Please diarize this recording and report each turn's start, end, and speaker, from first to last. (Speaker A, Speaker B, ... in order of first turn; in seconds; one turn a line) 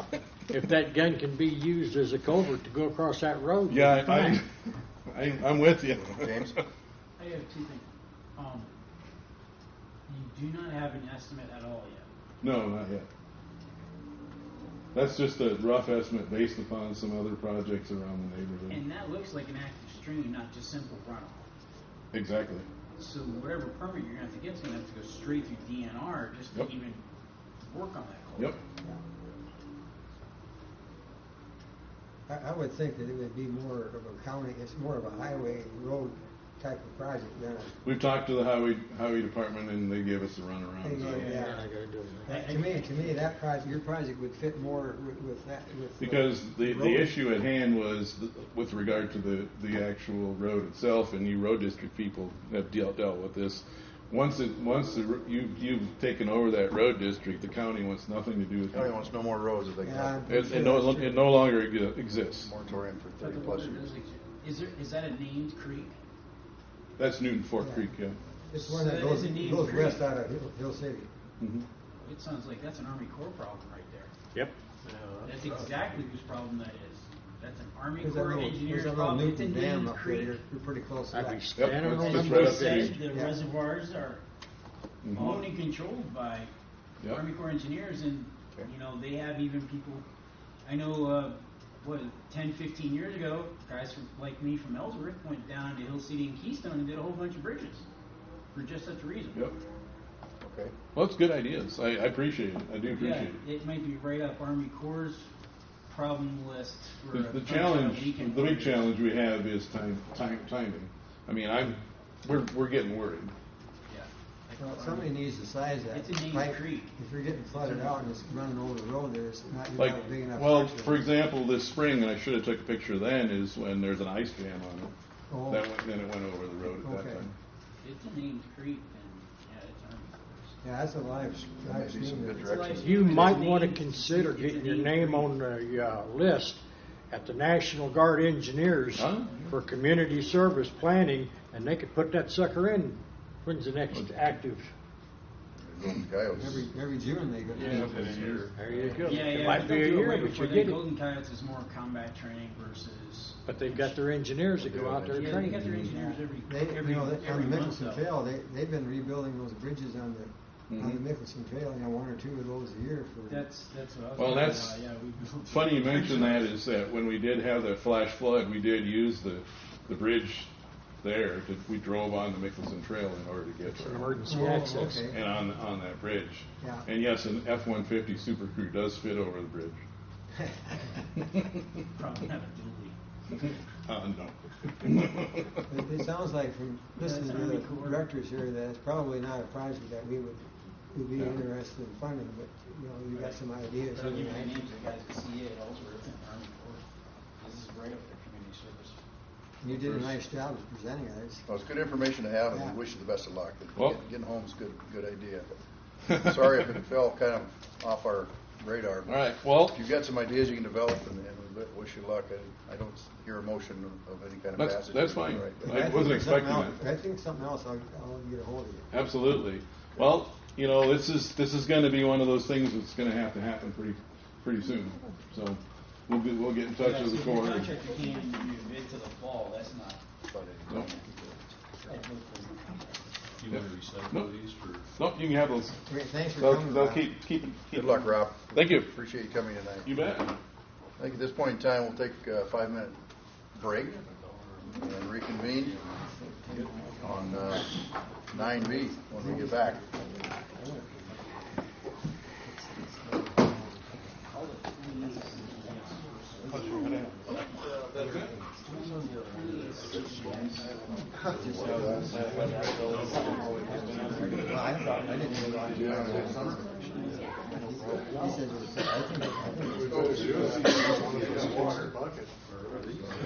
Speaker A: 0.5-4.4
Speaker B: 3.7-6.6
Speaker C: 6.0-6.5
Speaker D: 7.2-8.7
Speaker D: 10.1-12.1
Speaker B: 12.4-13.1
Speaker B: 14.9-18.8
Speaker D: 18.7-21.5
Speaker B: 22.1-22.6
Speaker D: 23.0-27.0
Speaker D: 27.6-28.6
Speaker E: 32.3-37.8
Speaker B: 37.8-41.4
Speaker E: 40.8-41.6
Speaker A: 41.1-42.3
Speaker D: 41.2-41.6
Speaker E: 42.2-47.1
Speaker D: 42.3-43.2
Speaker B: 46.0-58.9
Speaker C: 58.7-60.2
Speaker E: 59.8-61.3
Speaker B: 60.3-62.5
Speaker C: 62.4-63.9
Speaker D: 63.2-66.0
Speaker B: 67.0-68.2
Speaker E: 67.6-67.9
Speaker E: 68.5-71.1
Speaker D: 68.5-70.0
Speaker B: 71.4-71.7
Speaker D: 72.0-74.1
Speaker F: 74.8-75.8
Speaker D: 75.2-80.4
Speaker E: 78.0-81.6
Speaker A: 81.1-82.9
Speaker B: 81.5-83.0
Speaker D: 81.9-84.2
Speaker E: 83.0-83.4
Speaker B: 85.0-85.5
Speaker D: 85.1-86.5
Speaker D: 87.1-90.0
Speaker D: 90.6-97.8
Speaker D: 98.5-99.4
Speaker C: 100.4-100.7
Speaker B: 100.9-103.4
Speaker D: 102.8-105.3
Speaker D: 105.9-108.8
Speaker B: 107.1-113.3
Speaker D: 113.9-115.2
Speaker E: 114.6-121.0
Speaker D: 115.9-116.9
Speaker D: 117.5-118.1
Speaker B: 119.8-124.9
Speaker E: 125.3-125.7
Speaker B: 125.5-127.3
Speaker E: 126.7-127.2
Speaker D: 127.8-130.5
Speaker E: 130.6-132.5
Speaker C: 131.6-133.4
Speaker D: 132.4-135.3
Speaker A: 132.8-144.7
Speaker B: 138.9-139.4
Speaker B: 143.9-144.2
Speaker C: 145.6-146.7
Speaker E: 146.3-148.3
Speaker F: 147.5-149.5
Speaker A: 147.6-147.9
Speaker A: 148.5-150.8
Speaker D: 149.0-154.0
Speaker A: 153.4-155.9
Speaker C: 154.6-155.7
Speaker D: 155.1-158.0
Speaker E: 155.8-163.5
Speaker B: 160.7-161.0
Speaker D: 163.3-166.5
Speaker B: 164.2-164.8
Speaker B: 165.5-170.5
Speaker B: 171.0-179.8
Speaker A: 173.6-175.0
Speaker E: 174.3-175.2
Speaker E: 176.6-176.9
Speaker E: 180.4-180.8
Speaker D: 181.9-182.9
Speaker B: 183.3-185.6
Speaker E: 185.7-194.8
Speaker D: 187.0-188.1
Speaker D: 193.1-196.8
Speaker D: 197.4-199.0
Speaker E: 199.6-201.5
Speaker B: 199.7-200.2
Speaker C: 201.5-205.5
Speaker E: 202.5-202.8
Speaker C: 206.1-215.8
Speaker B: 209.1-209.8
Speaker B: 214.6-216.8
Speaker E: 215.6-218.9
Speaker B: 218.9-227.7
Speaker D: 226.8-230.0
Speaker C: 230.3-231.9
Speaker D: 231.8-233.1
Speaker F: 233.4-234.8
Speaker B: 233.5-234.4
Speaker B: 234.9-235.8
Speaker E: 235.8-237.1
Speaker B: 236.4-238.9
Speaker C: 237.7-239.9
Speaker B: 239.8-240.3
Speaker C: 241.0-243.0
Speaker C: 243.5-244.1
Speaker F: 244.2-244.6
Speaker C: 244.8-245.8
Speaker E: 245.9-247.7
Speaker C: 247.0-249.8
Speaker E: 248.3-251.2
Speaker E: 252.4-254.2
Speaker D: 254.3-256.6
Speaker B: 258.0-258.3
Speaker E: 258.0-258.4
Speaker D: 258.9-260.7
Speaker E: 261.2-266.8
Speaker C: 262.0-262.6
Speaker C: 265.7-266.8
Speaker E: 267.5-271.9
Speaker C: 269.9-270.6
Speaker F: 270.1-272.0
Speaker C: 271.4-271.8
Speaker F: 272.7-273.1